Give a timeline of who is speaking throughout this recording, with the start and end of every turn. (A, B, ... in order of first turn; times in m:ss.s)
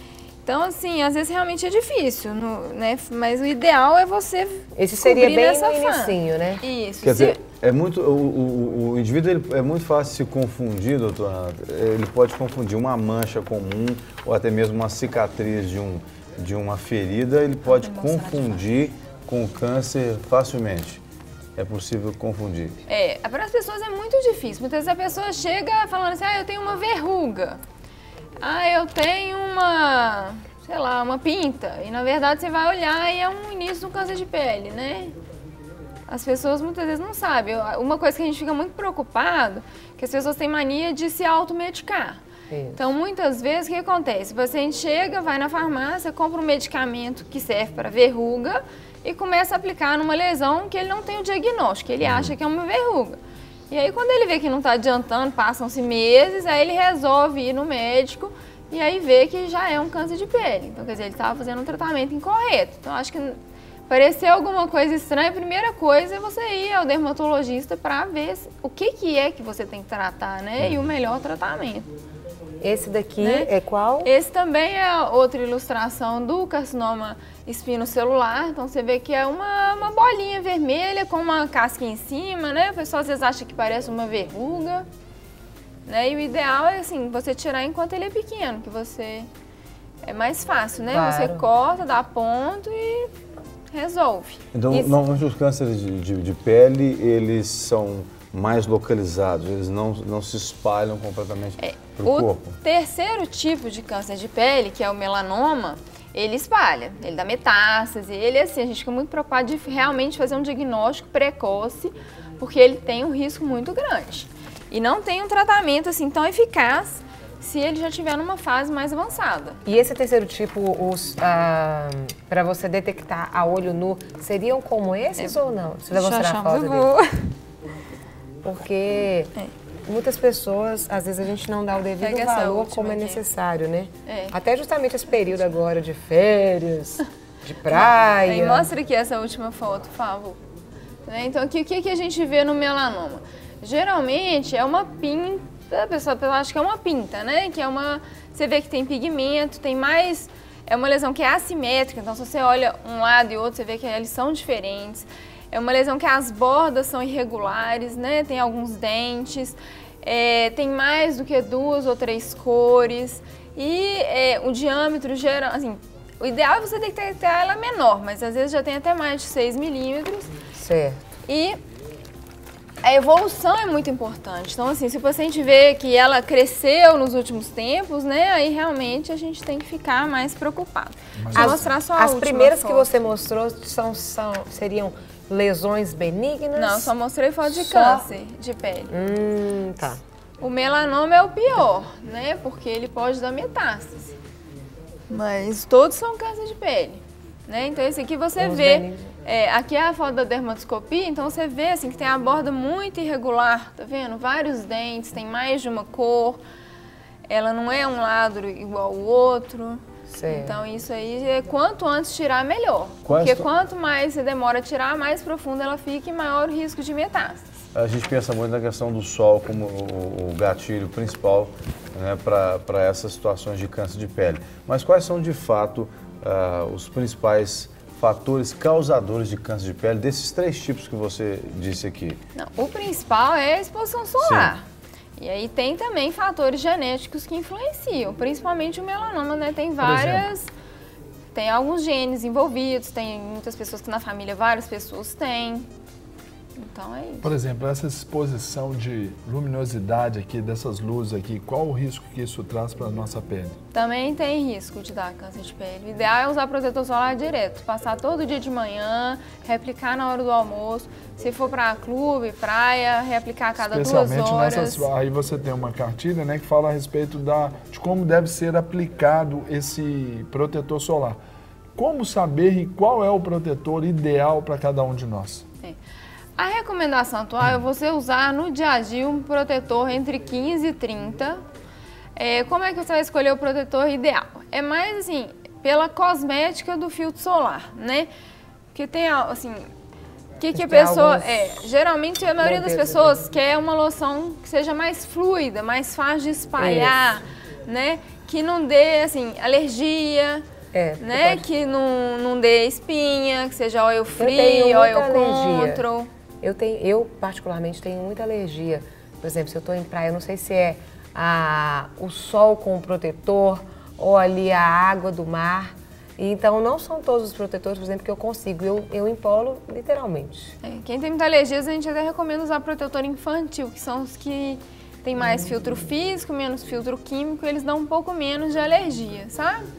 0:00.4-0:07.4 A
0:04.8-0:06.6 B
0:07.0-0:21.0 C
0:17.7-0:18.7 A
0:21.6-0:22.8 C
0:22.9-0:27.6 A
0:28.4-0:35.2 A
0:36.1-0:42.2 A
0:42.5-0:42.8 B
0:42.8-0:53.2 A
0:52.0-0:52.3 C
0:53.7-1:03.4 A
1:03.9-1:11.9 A
1:12.6-1:14.1 B
1:13.2-1:13.5 A
1:14.0-1:24.9 A
1:25.9-1:29.3 A
1:30.0-1:33.1 A
1:30.9-1:31.4 B
1:33.7-1:34.4 A
1:34.5-1:42.6 C
1:41.6-1:59.6 A
1:59.7-2:06.9 B
2:05.9-2:07.3 A
2:08.4-2:09.3 B
2:09.9-2:18.7 B
2:12.0-2:13.2 A
2:14.1-2:14.4 A
2:17.7-2:20.4 A
2:21.1-2:50.3 A
2:50.6-2:51.1 B
2:51.3-2:51.6 A
2:52.8-3:02.9 A
3:01.2-3:01.7 D
3:01.3-3:06.9 B
3:06.6-3:08.9 A
3:07.4-3:08.1 B
3:08.9-3:10.0 B
3:10.4-3:14.2 A
3:15.1-3:26.4 A
3:18.4-3:19.1 B
3:27.3-3:37.6 A
3:30.1-3:30.6 B
3:33.1-3:33.5 C
3:37.7-3:52.2 C
3:52.4-3:54.6 A
3:54.2-3:54.5 C
3:55.2-4:00.5 A
3:59.8-4:00.3 D
4:01.3-4:05.7 A
4:06.6-4:07.3 A
4:07.2-4:13.6 D
4:13.7-4:24.9 A
4:23.6-4:31.2 D
4:31.8-4:35.4 D
4:36.4-4:41.4 A
4:42.2-4:48.1 A
4:48.7-4:49.7 A
4:50.4-5:00.4 A
4:50.6-4:51.6 B
4:52.4-4:53.2 B
4:56.6-4:57.2 B
5:00.7-5:01.4 B
5:01.0-5:06.1 A
5:04.2-5:05.8 B
5:06.4-5:20.6 B
5:20.6-5:29.7 A